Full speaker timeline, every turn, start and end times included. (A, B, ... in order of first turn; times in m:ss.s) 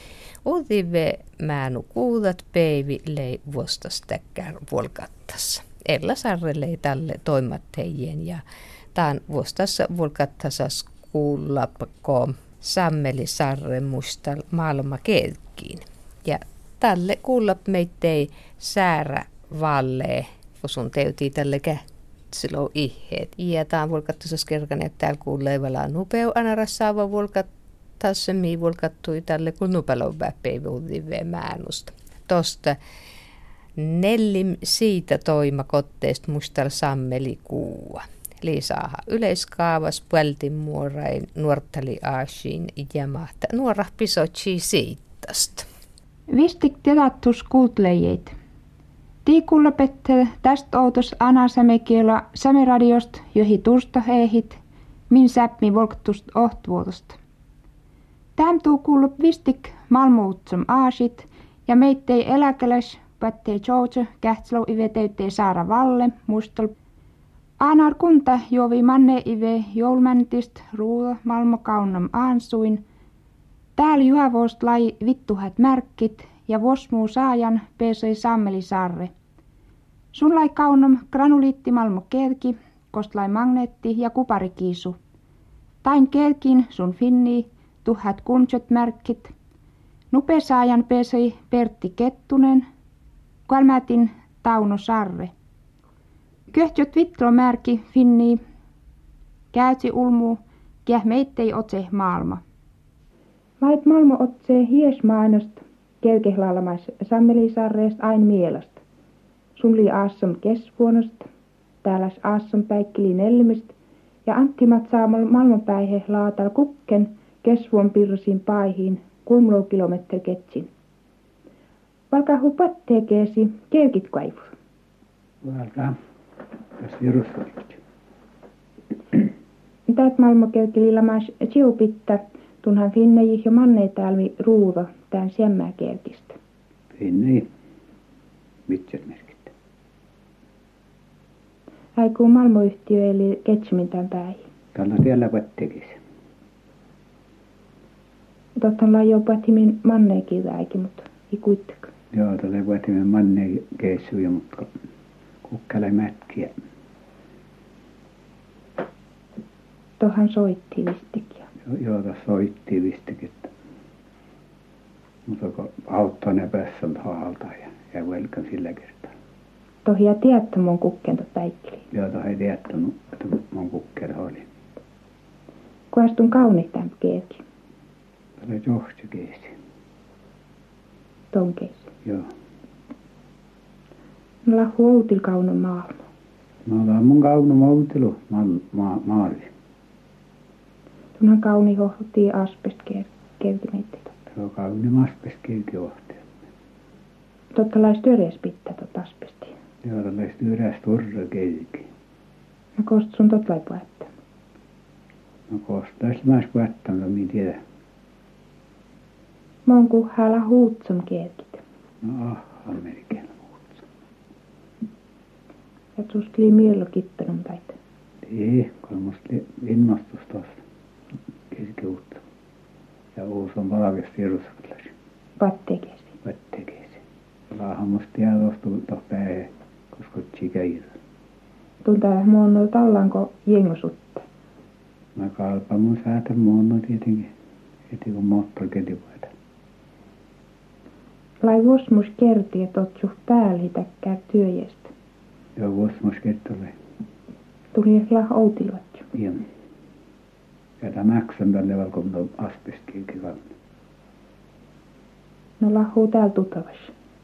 0:00.4-0:08.4 A
0:08.9-0:27.5 A
0:28.0-0:32.8 A
0:33.8-0:45.7 A
0:46.3-0:48.3 B
0:49.2-0:57.2 B
0:58.4-1:06.7 B
1:07.6-1:12.8 B
1:13.8-1:19.1 B
1:20.1-1:25.0 B
1:25.8-1:29.3 B
1:30.1-1:32.7 B
1:33.5-1:35.3 B
1:36.5-1:38.4 B
1:39.5-1:42.4 B
1:43.6-1:48.8 B
1:49.6-1:51.3 B
1:51.8-1:53.7 B
1:54.2-2:00.7 B
2:02.1-2:04.5 B
2:05.4-2:06.0 C
2:06.8-2:07.8 C
2:09.9-2:16.4 B
2:16.9-2:17.5 C
2:18.7-2:19.5 C
2:22.0-2:24.4 B
2:24.7-2:26.0 C
2:28.6-2:31.9 B
2:32.1-2:34.8 C
2:35.4-2:36.6 C
2:40.0-2:41.5 B
2:41.6-2:43.5 C
2:45.2-2:49.1 C
2:49.8-2:51.8 B
2:51.9-2:54.5 C
2:55.9-2:57.4 B
2:58.4-2:59.6 C
3:01.3-3:01.9 B
3:02.0-3:02.3 C
3:04.4-3:06.0 B
3:06.6-3:09.5 C
3:11.2-3:14.1 B
3:14.3-3:16.3 C
3:17.5-3:19.5 B
3:19.8-3:21.9 C
3:22.8-3:24.1 B
3:25.5-3:27.6 C
3:29.6-3:31.6 B
3:32.0-3:33.8 C
3:36.0-3:37.8 B
3:38.2-3:40.6 C
3:41.5-3:42.2 C
3:43.1-3:44.9 C
3:45.4-3:46.1 B
3:46.2-3:51.0 C
3:51.8-3:54.2 B
3:55.2-3:57.3 C
3:57.9-3:59.3 C
4:01.4-4:04.9 B
4:05.6-4:06.7 C
4:07.7-4:09.1 B
4:09.1-4:09.4 C
4:10.8-4:13.5 C
4:15.6-4:16.9 B